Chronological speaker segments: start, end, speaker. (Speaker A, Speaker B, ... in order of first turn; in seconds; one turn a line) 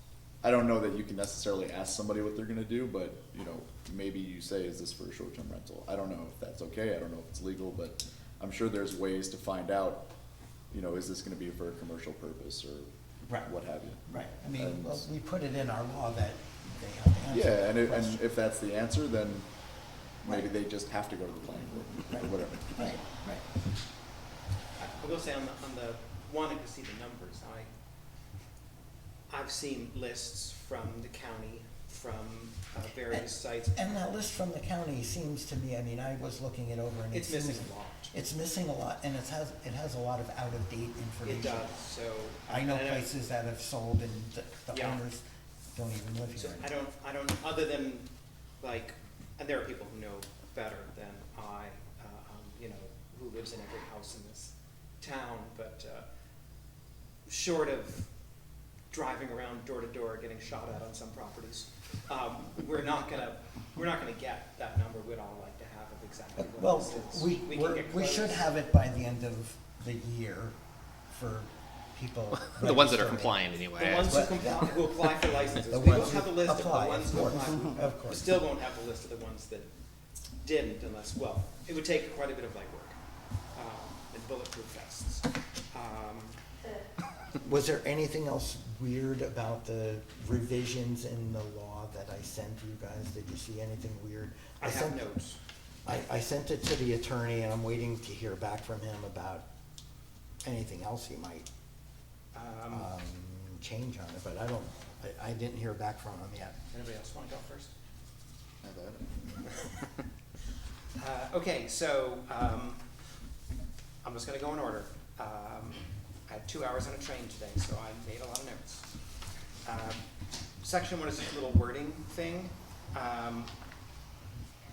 Speaker A: 0.4-10.1
Speaker A: 10.7-12.9
Speaker A: 13.4-14.0
Speaker B: 14.1-18.2
Speaker A: 14.6-15.1
Speaker A: 17.3-19.5
Speaker A: 20.2-23.0
Speaker B: 20.2-20.5
Speaker B: 22.1-23.4
Speaker C: 24.8-27.7
Speaker C: 29.3-33.8
Speaker B: 33.1-41.7
Speaker C: 37.1-38.1
Speaker C: 41.2-43.1
Speaker B: 42.5-46.7
Speaker C: 44.7-45.0
Speaker C: 46.4-48.1
Speaker C: 48.6-56.0
Speaker C: 57.3-58.1
Speaker C: 58.9-68.5
Speaker B: 66.4-70.6
Speaker B: 71.1-73.4
Speaker D: 72.3-74.7
Speaker C: 73.8-79.7
Speaker B: 74.1-74.8
Speaker B: 75.7-78.4
Speaker C: 80.4-83.0
Speaker C: 83.5-86.4
Speaker B: 87.4-95.1
Speaker C: 94.6-95.4
Speaker B: 95.8-99.5
Speaker B: 100.4-101.5
Speaker C: 102.3-102.9
Speaker B: 102.7-106.6
Speaker C: 106.7-107.7
Speaker A: 108.6-109.5
Speaker C: 111.0-112.8
Speaker C: 114.0-118.9
Speaker C: 119.7-120.0
Speaker C: 120.6-123.5